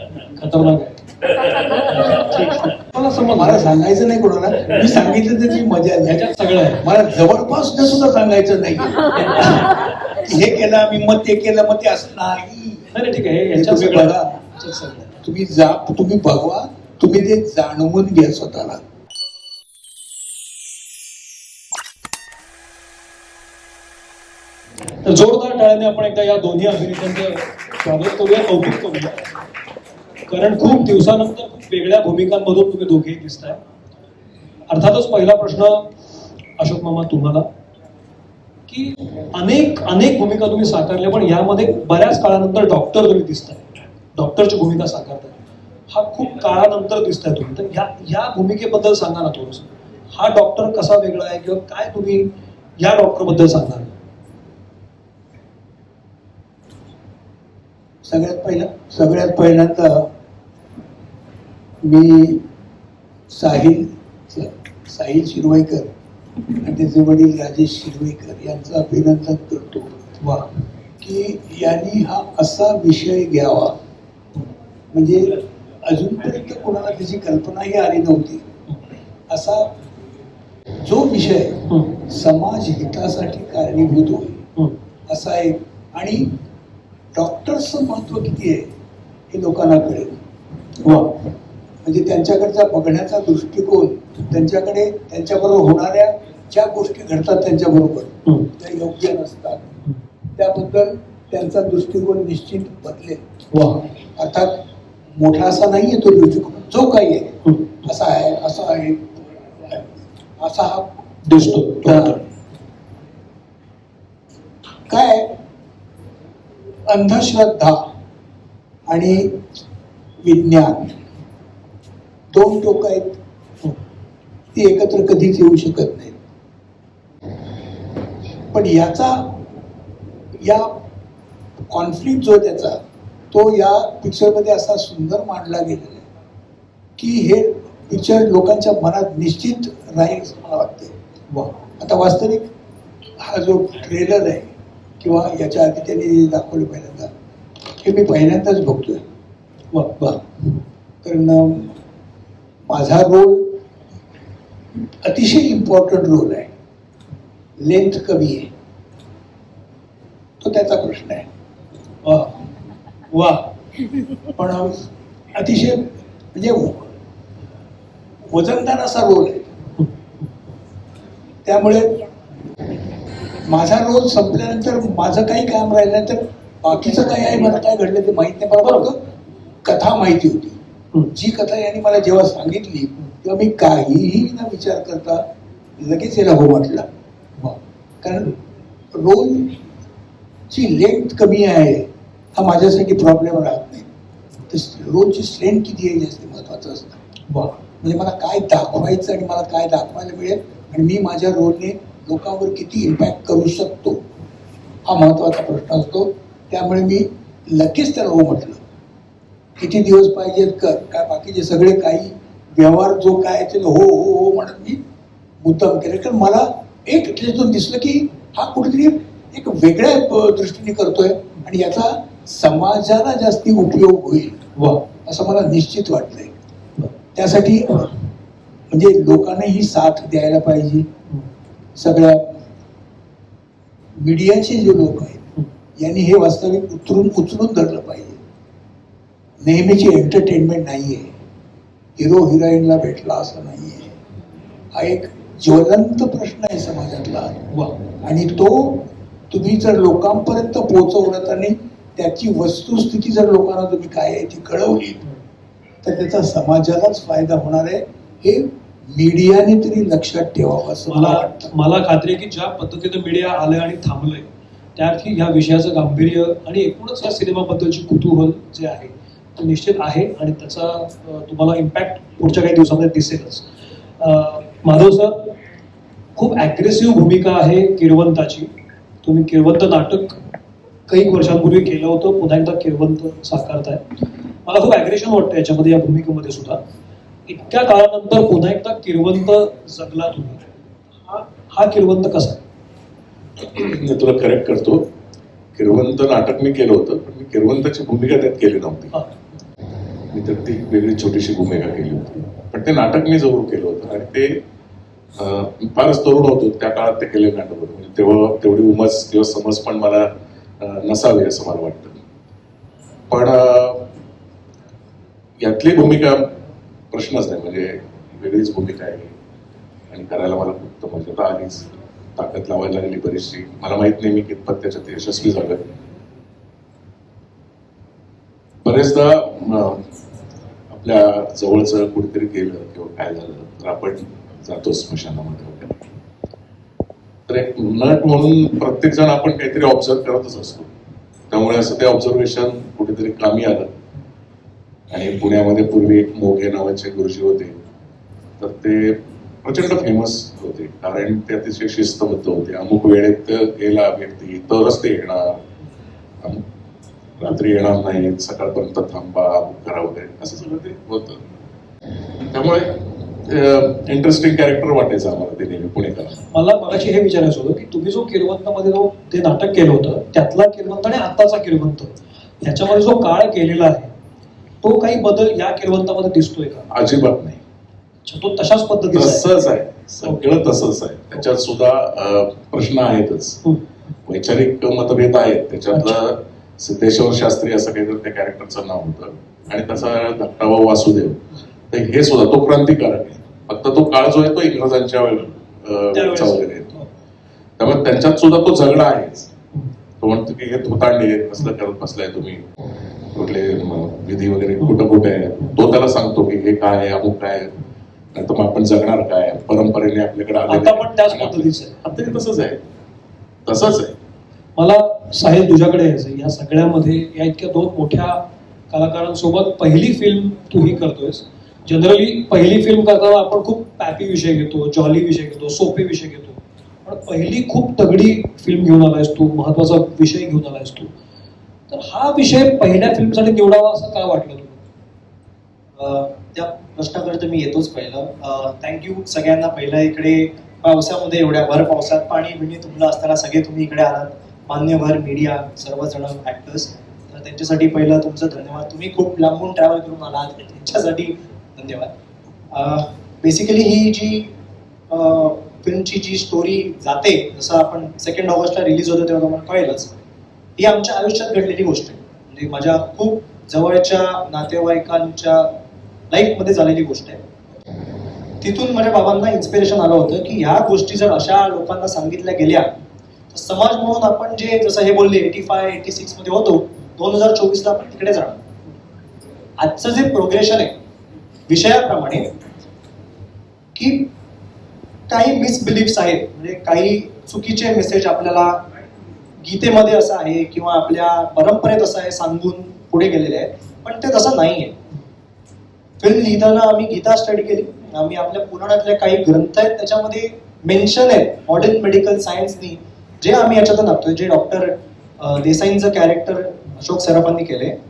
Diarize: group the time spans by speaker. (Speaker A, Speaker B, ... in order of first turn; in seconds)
Speaker A: 0.3-1.0, 1.9-3.7, 6.1-6.8, 12.9-15.2, 25.0-29.2, 30.3-33.6, 34.7-35.9, 36.6-37.5, 38.7-45.4, 45.9-53.9, 70.2-70.5, 90.8-91.2, 103.5-103.9, 111.2-112.2, 149.7-150.1, 162.0-162.4, 163.1-163.5, 197.3-197.6, 224.6-224.9, 260.9-273.5, 274.0-275.4, 276.2-278.5, 279.0-280.2, 280.9-283.8, 284.4-286.6, 287.3-290.4, 291.0-292.4, 366.3-373.9, 374.6-376.7, 378.1-379.2, 385.7-386.0, 395.9-396.9, 410.5-411.9, 414.6-430.9, 431.7-434.6
Speaker B: 3.4-9.7, 10.2-12.9, 13.5-14.4, 15.2-18.8, 58.0-60.1, 61.8-62.5, 63.3-65.9, 66.6-70.0, 71.0-73.8, 74.9-78.5, 79.3-79.7, 80.8-84.4, 85.1-86.3, 87.2-88.7, 89.3-90.2, 91.8-99.7, 100.3-103.2, 104.0-104.6, 105.2-111.0, 111.7-112.2, 114.9-115.3, 116.9-117.8, 118.9-119.4, 120.2-121.0, 122.3-123.2, 124.5-126.2, 128.5-129.4, 130.4-130.8, 131.7-136.1, 137.0-140.9, 141.7-142.5, 143.2-147.1, 147.8-149.0, 151.0-151.8, 152.7-153.6, 155.0-156.5, 157.6-158.5, 160.4-161.3, 164.4-166.8, 168.3-169.5, 171.4-172.0, 173.4-179.0, 179.6-180.6, 181.1-185.3, 185.8-186.9, 188.0-188.4, 188.9-189.6, 190.5-193.9, 194.5-197.0, 197.8-204.0, 204.9-208.6, 209.6-214.8, 215.4-224.4, 225.0-226.4, 227.1-228.0, 228.7-230.9, 231.8-232.3, 234.0-238.2, 239.4-241.2, 242.0-244.0, 244.7-255.0, 255.8-261.5
Speaker C: 293.4-294.9, 295.6-299.0, 300.1-304.4, 305.2-310.1, 310.6-312.0, 313.1-313.9, 315.4-316.4, 316.9-319.1, 319.9-325.7, 328.6-329.8, 330.7-335.8, 337.3-340.7, 341.3-343.7, 344.9-347.6, 348.4-355.4, 357.2-361.2, 362.3-366.2, 376.7-377.4, 378.9-383.4, 384.1-396.7, 397.6-399.3, 400.0-402.5, 403.1-407.6, 408.1-412.6, 413.5-414.0
Speaker D: 435.8-451.9, 452.5-454.3, 454.9-460.0, 460.6-465.6, 466.1-467.2, 468.4-472.7, 473.3-478.4, 479.6-480.8, 481.5-482.3, 483.8-484.1, 485.1-488.6, 489.4-494.8, 496.0-507.8